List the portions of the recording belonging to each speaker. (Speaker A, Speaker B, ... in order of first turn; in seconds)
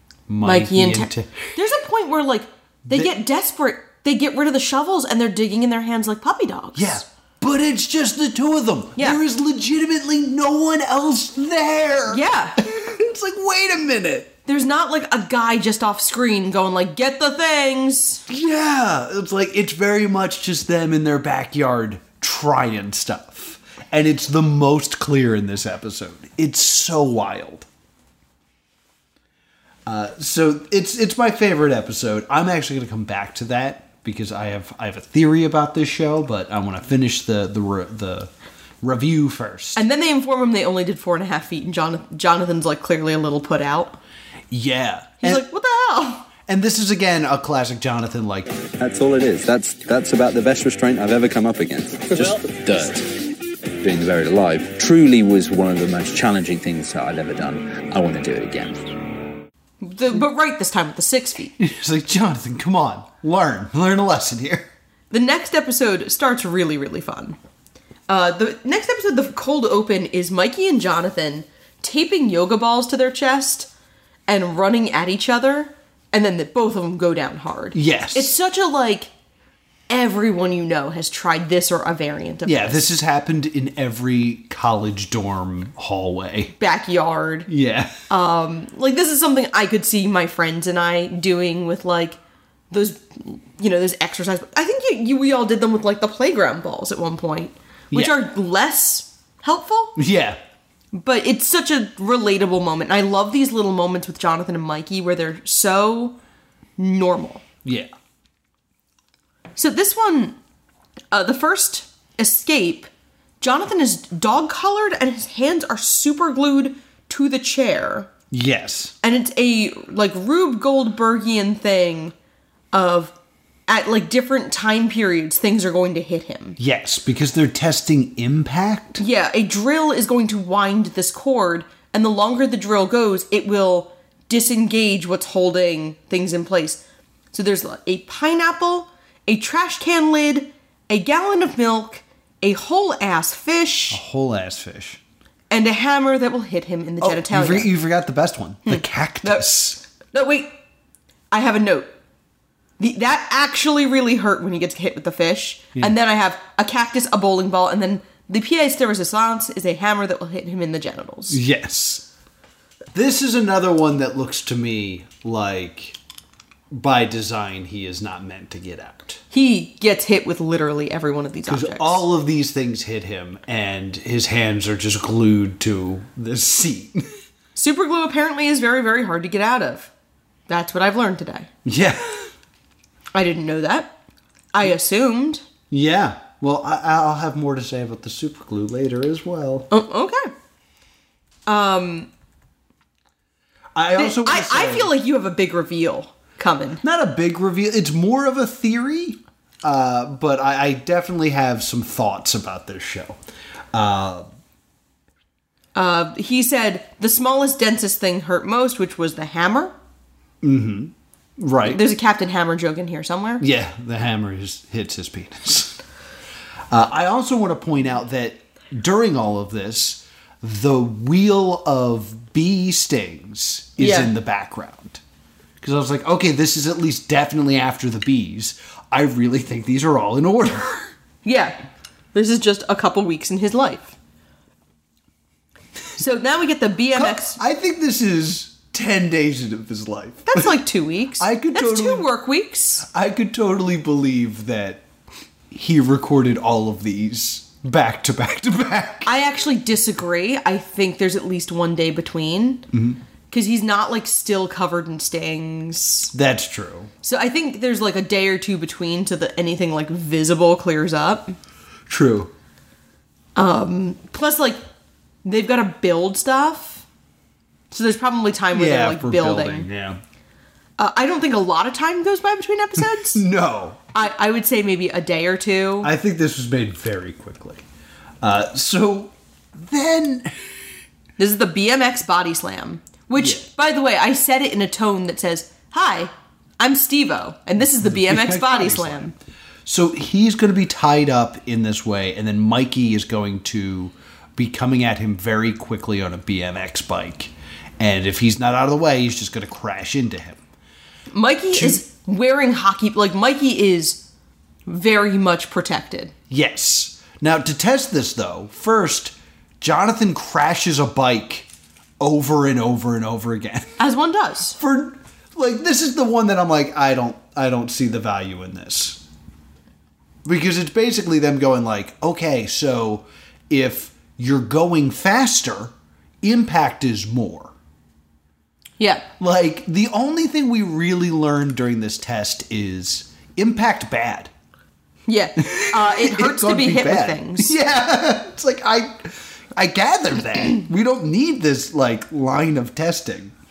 Speaker A: 0.3-1.4, 6.7-14.3, 18.3-27.6, 29.9-38.3, 38.8-39.8, 44.5-45.4, 46.5-48.5, 61.6-64.7, 77.7-78.3, 82.4-86.5, 87.5-87.9, 100.0-100.4, 107.6-107.9, 118.3-118.9, 126.6-129.0, 143.9-145.0, 147.0-149.8, 161.3-162.1, 162.9-166.0, 166.7-169.2, 171.5-177.1, 181.7-182.3, 185.7-189.7, 193.7-194.9, 196.8-203.2, 203.7-204.2, 210.4-211.8, 213.4-215.8, 216.7-225.0, 225.6-230.9, 236.9-240.5, 241.2-242.1, 242.8-244.8, 245.5-249.1, 252.7-253.0, 256.1-256.9, 261.9-262.3, 268.5-270.0, 272.8-273.8, 275.8-277.6, 278.2-280.3, 283.1-283.4, 287.8-289.1, 289.6-300.4, 301.5-301.8, 306.3-311.5, 312.0-313.7, 314.5-319.0, 320.2-327.5, 329.2-334.3, 335.4-343.3
Speaker B: 0.4-7.0, 12.1-12.6, 14.5-18.2, 39.8-44.0, 45.2-46.3, 59.8-61.5, 65.1-67.4, 68.1-73.7, 74.3-79.1, 79.9-82.8, 86.6-87.5, 88.1-92.2, 92.7-100.0, 100.9-106.2, 106.8-107.4, 109.5-110.3, 111.1-112.9, 113.4-118.1, 119.0-122.1, 122.7-123.1, 123.7-126.6, 129.0-136.8, 137.3-144.0, 145.5-147.7, 148.7-149.4, 150.0-150.5, 151.3-151.9, 152.8-161.4, 169.3-172.0, 177.5-179.9, 180.5-181.5, 183.1-183.9, 184.5-185.4, 189.7-190.3, 191.5-192.1, 194.0-196.8, 205.7-209.7, 211.6-213.4, 223.8-224.1, 231.2-231.6, 232.1-233.9, 235.9-237.4, 240.3-242.8, 249.1-252.7, 253.3-256.1, 257.0-261.4, 263.4-264.6, 265.2-266.8, 267.7-269.7, 270.8-273.2, 273.9-275.9, 281.2-289.1, 301.1-304.0, 304.7-306.1, 313.8-314.6, 328.8-329.0, 335.1-337.5
Speaker C: 48.8-53.1, 53.8-58.8